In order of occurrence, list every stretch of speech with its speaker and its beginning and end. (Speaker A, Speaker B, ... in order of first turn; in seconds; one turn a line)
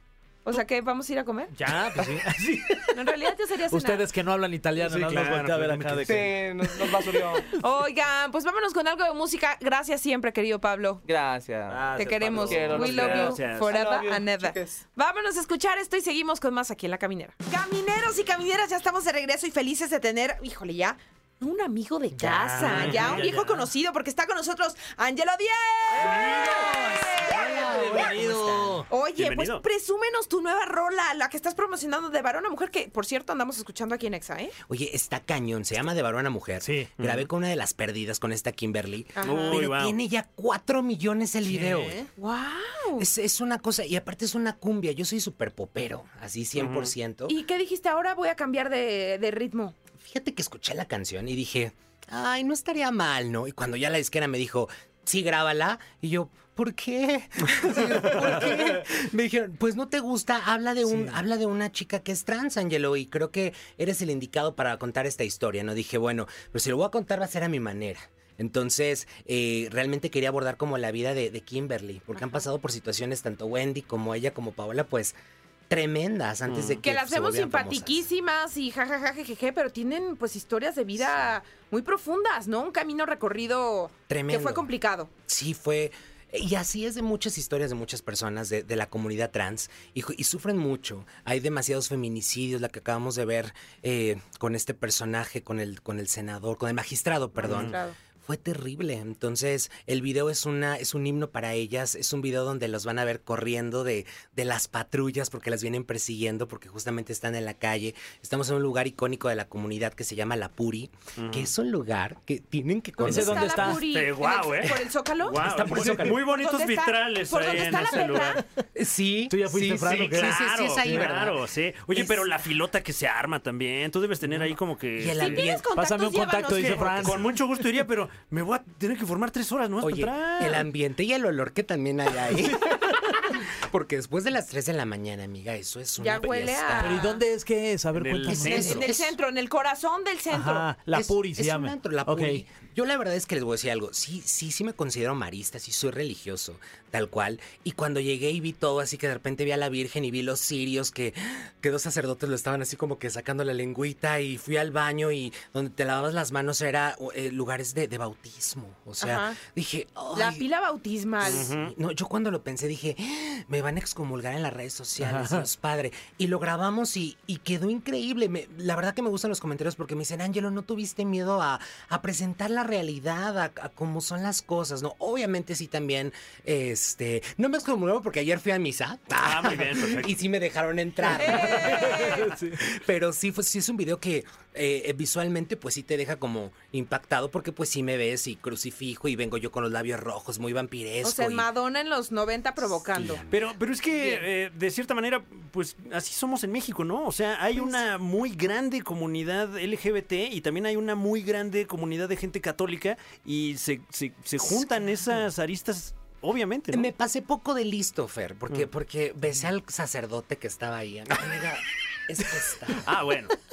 Speaker A: 0.4-1.5
Speaker B: 1.5-6.3
Speaker A: 2.9-4.0
Speaker C: 4.8-6.3
Speaker D: 6.0-7.5
Speaker A: 7.5-11.0
Speaker D: 11.0-11.9
Speaker C: 11.9-13.7
Speaker A: 11.9-28.1
Speaker B: 12.0-12.8
Speaker D: 12.4-14.8
Speaker B: 22.1-23.7
Speaker C: 22.6-23.3
Speaker B: 25.9-28.9
Speaker C: 26.1-26.4
Speaker C: 27.3-28.2
Speaker E: 27.7-28.7
Speaker C: 28.8-29.6
Speaker A: 28.9-34.5
Speaker E: 34.7-42.0
Speaker B: 36.6-36.9
Speaker C: 37.0-37.3
Speaker A: 39.1-39.6
Speaker C: 39.2-40.0
Speaker B: 41.4-42.0
Speaker A: 42.2-43.1
Speaker E: 43.0-47.4
Speaker C: 46.6-46.9
Speaker A: 47.3-49.7
Speaker E: 50.0-75.2
Speaker A: 72.1-72.4
Speaker E: 75.7-78.0
Speaker C: 76.5-76.8
Speaker A: 76.8-85.1
Speaker E: 84.1-84.7
Speaker E: 85.2-113.6
Speaker C: 97.4-97.8
Speaker A: 97.4-98.0
Speaker C: 111.2-111.5
Speaker A: 113.0-118.4
Speaker B: 113.0-113.8
Speaker C: 113.6-118.4
Speaker B: 115.4-116.1
Speaker E: 115.6-116.1
Speaker E: 118.7-121.4
Speaker B: 119.3-121.2
Speaker C: 119.9-125.5
Speaker E: 121.9-122.3
Speaker E: 125.0-125.7
Speaker A: 125.2-127.2
Speaker B: 125.8-127.2
Speaker C: 126.5-130.7
Speaker E: 129.8-132.8
Speaker E: 133.3-137.2
Speaker A: 136.0-137.2
Speaker B: 136.8-138.8
Speaker C: 137.9-138.9
Speaker E: 138.3-139.1
Speaker A: 138.5-140.7
Speaker B: 140.3-142.4
Speaker E: 140.9-160.4
Speaker A: 159.0-159.4
Speaker A: 160.1-161.5
Speaker C: 161.2-161.7
Speaker E: 161.2-191.5
Speaker B: 165.0-165.4
Speaker C: 179.2-180.2
Speaker A: 181.1-182.3
Speaker B: 182.0-182.6
Speaker A: 191.0-193.2
Speaker E: 192.9-193.4
Speaker C: 193.3-206.9
Speaker A: 193.9-194.2
Speaker E: 206.7-212.9
Speaker C: 212.8-213.3